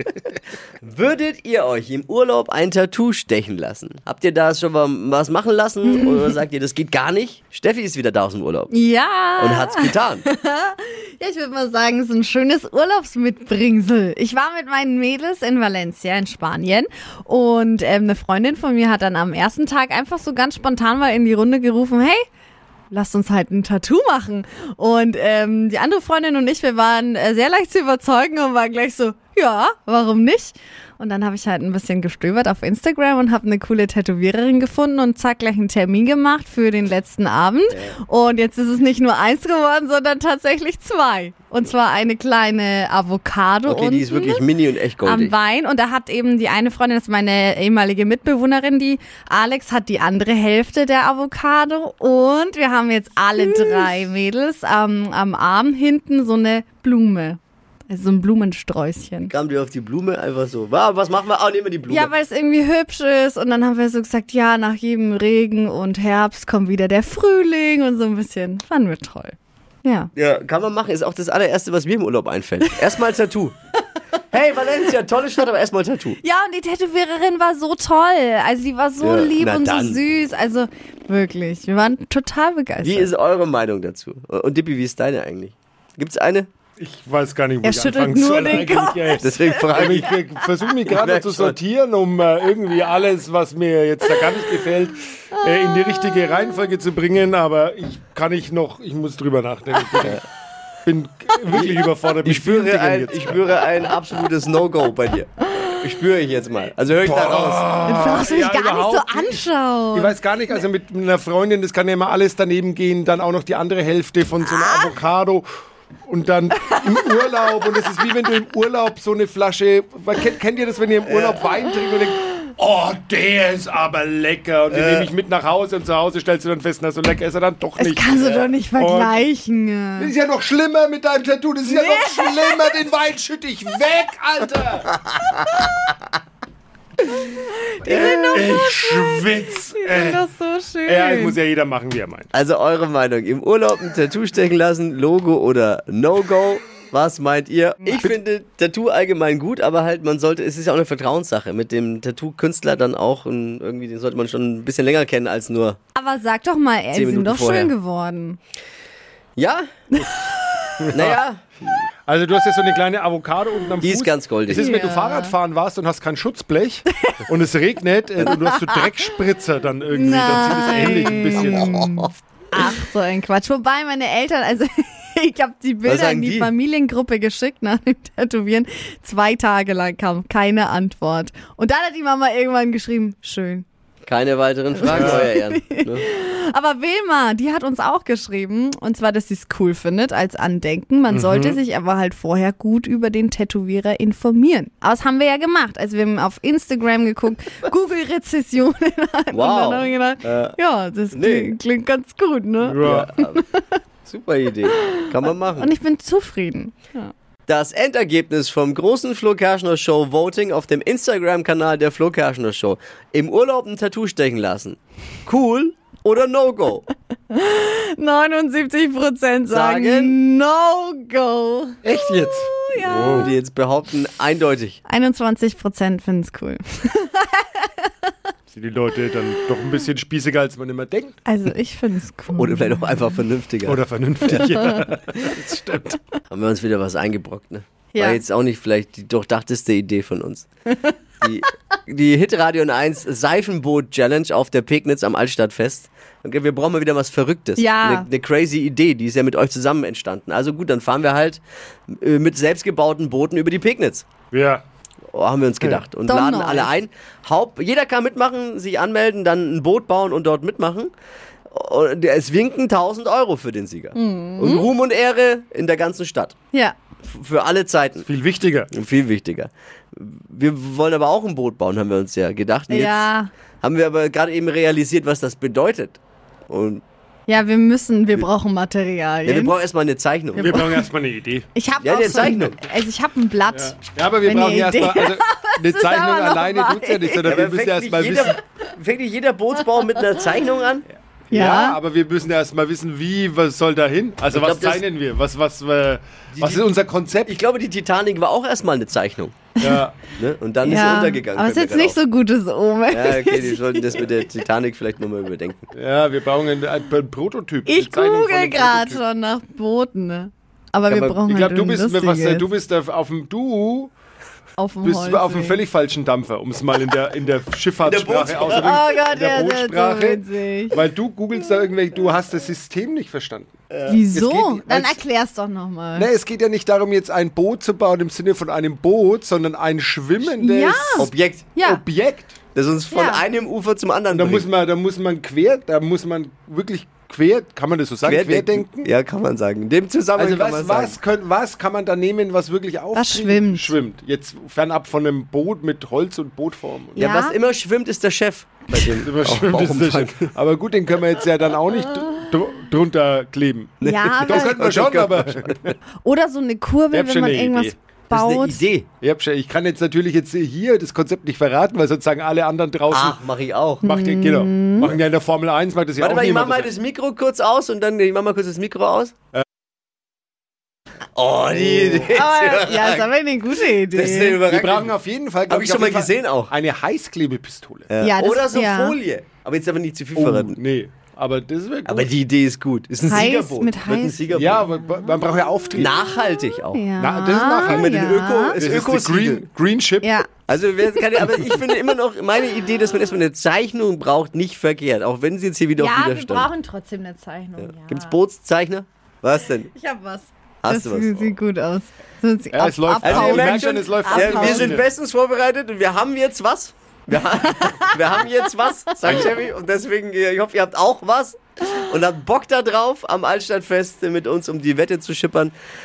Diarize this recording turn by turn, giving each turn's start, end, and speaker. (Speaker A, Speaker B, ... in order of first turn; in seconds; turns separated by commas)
Speaker A: 0.8-8.7, Speaker B: 5.8-6.3, Speaker B: 8.7-22.2, Speaker A: 9.4-10.2, Speaker B: 22.9-44.4, Speaker A: 37.7-38.0, Speaker A: 43.6-45.4, Speaker B: 45.0-59.3, Speaker A: 53.4-53.9, Speaker A: 59.3-62.1, Speaker B: 61.9-70.1, Speaker A: 70.1-73.5, Speaker A: 74.3-76.2, Speaker B: 76.2-83.1, Speaker A: 79.0-80.0, Speaker A: 82.8-86.5, Speaker C: 86.8-100.2, Speaker B: 87.6-90.4, Speaker A: 89.2-90.1, Speaker A: 90.8-91.6, Speaker B: 95.3-96.1, Speaker C: 100.8-103.4, Speaker A: 101.5-107.7, Speaker C: 107.0-109.4, Speaker B: 107.8-110.1, Speaker C: 109.9-115.5, Speaker B: 114.5-114.9, Speaker C: 116.1-129.2, Speaker A: 121.0-121.4, Speaker A: 124.7-125.1, Speaker B: 127.8-130.1, Speaker C: 130.0-134.9, Speaker B: 131.7-132.7, Speaker B: 137.2-141.4, Speaker A: 137.8-138.4, Speaker C: 138.3-140.2, Speaker C: 140.8-142.3, Speaker A: 142.3-155.8, Speaker B: 147.8-148.1, Speaker B: 155.9-158.4, Speaker A: 156.9-157.7, Speaker A: 159.4-159.7, Speaker B: 159.9-160.5, Speaker C: 160.8-161.1, Speaker A: 160.9-161.4, Speaker C: 162.1-171.9, Speaker A: 163.8-164.7, Speaker B: 164.5-165.3, Speaker B: 168.2-168.8, Speaker B: 169.9-183.6, Speaker A: 171.3-172.1, Speaker A: 175.8-176.5, Speaker A: 184.1-186.1, Speaker B: 184.8-203.6, Speaker C: 184.8-185.3, Speaker C: 191.1-191.6, Speaker A: 199.3-200.6, Speaker A: 201.1-201.6, Speaker C: 202.6-203.1, Speaker A: 202.8-203.4, Speaker A: 204.1-205.7, Speaker B: 205.6-207.1, Speaker A: 207.5-216.8, Speaker B: 217.3-223.3, Speaker A: 219.5-220.1, Speaker C: 221.8-223.3, Speaker A: 222.9-224.8, Speaker B: 224.9-227.9, Speaker C: 228.5-231.2, Speaker B: 231.2-232.7, Speaker A: 232.3-234.4, Speaker C: 233.6-236.0, Speaker A: 236.3-240.5, Speaker B: 237.9-238.2, Speaker A: 241.2-254.1, Speaker B: 247.6-248.1, Speaker C: 254.3-254.6, Speaker A: 255.1-260.9, Speaker B: 256.1-256.7, Speaker A: 261.5-266.3, Speaker B: 263.9-264.6, Speaker A: 267.0-268.1, Speaker C: 268.0-268.7, Speaker A: 268.7-273.1, Speaker B: 272.7-273.3, Speaker A: 273.6-276.8, Speaker B: 277.3-279.6, Speaker A: 279.2-280.6, Speaker B: 280.4-280.9, Speaker C: 280.4-281.5, Speaker B: 281.5-287.4, Speaker A: 281.8-282.6, Speaker C: 283.5-288.4, Speaker A: 287.2-290.9, Speaker C: 291.3-297.3, Speaker B: 291.3-291.8, Speaker A: 294.3-294.8, Speaker A: 296.4-296.7, Speaker A: 297.2-299.5, Speaker C: 299.6-300.0, Speaker A: 300.1-302.0, Speaker B: 300.6-304.1, Speaker A: 302.9-305.7, Speaker C: 305.7-309.0, Speaker B: 307.6-312.5, Speaker A: 310.9-311.1, Speaker C: 311.1-313.9, Speaker B: 314.6-315.6, Speaker C: 314.8-323.5, Speaker A: 317.8-318.8, Speaker B: 318.5-320.8, Speaker A: 323.7-324.0, Speaker B: 323.9-326.1, Speaker C: 324.1-325.0, Speaker C: 325.9-332.4, Speaker B: 330.2-331.8, Speaker A: 331.0-331.5, Speaker A: 332.5-334.4, Speaker B: 332.9-333.2, Speaker C: 334.1-338.9, Speaker A: 338.0-341.0, Speaker C: 340.1-347.0, Speaker B: 342.9-343.7, Speaker B: 346.9-347.4, Speaker A: 346.9-350.2, Speaker C: 348.7-355.5, Speaker B: 353.8-354.6, Speaker A: 353.8-355.7, Speaker B: 356.0-358.6, Speaker C: 356.9-357.7, Speaker A: 358.1-358.9, Speaker C: 359.0-363.2, Speaker A: 362.9-363.8, Speaker B: 363.8-364.9, Speaker C: 363.8-366.7, Speaker A: 366.0-369.1, Speaker A: 371.1-373.1, Speaker C: 371.5-372.0, Speaker B: 372.1-374.4, Speaker A: 373.9-374.9, Speaker C: 374.4-377.9, Speaker A: 375.5-376.5, Speaker A: 377.9-380.6, Speaker B: 378.0-378.9, Speaker C: 380.1-382.1, Speaker A: 381.9-384.6, Speaker B: 383.0-385.1, Speaker C: 384.3-385.9, Speaker A: 385.8-386.9, Speaker B: 386.7-388.6, Speaker C: 387.0-388.0, Speaker A: 387.6-389.4, Speaker C: 388.5-390.1, Speaker B: 390.0-390.3, Speaker A: 390.5-396.5, Speaker B: 395.8-398.2, Speaker A: 397.6-399.7, Speaker B: 399.7-404.8, Speaker A: 400.6-401.3, Speaker C: 402.5-404.8, Speaker A: 403.0-415.5